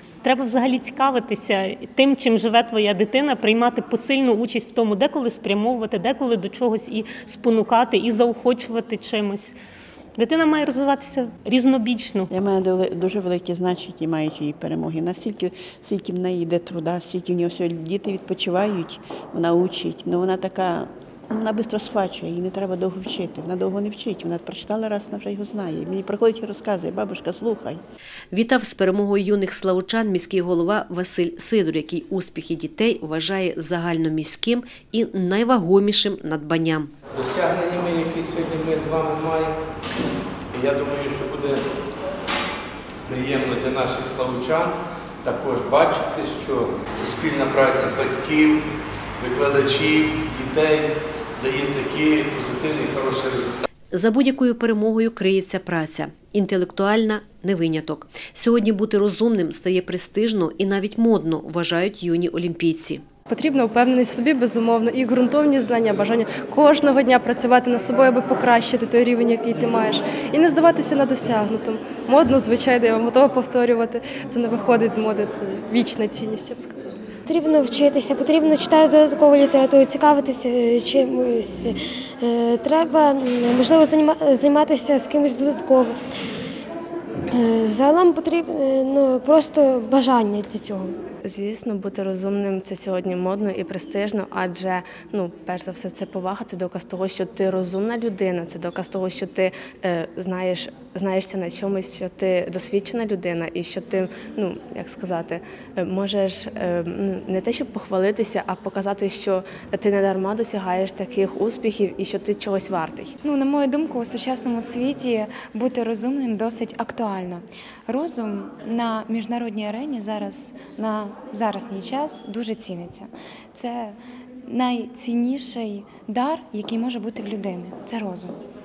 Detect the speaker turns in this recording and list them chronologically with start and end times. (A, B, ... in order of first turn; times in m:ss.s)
0:00.2-0:09.6 A
0:10.2-0:12.3 A
0:12.3-0:27.8 B
0:28.3-0:36.9 C
0:37.1-0:39.5 D
0:40.5-0:41.6 D
0:43.1-0:48.6 D
0:49.2-0:50.9 D
0:51.4-0:53.6 D
0:53.9-1:03.0 C
1:03.3-1:16.9 E
1:17.3-1:26.0 F
1:27.3-1:30.9 F
1:31.2-1:53.1 G
1:53.2-2:08.3 H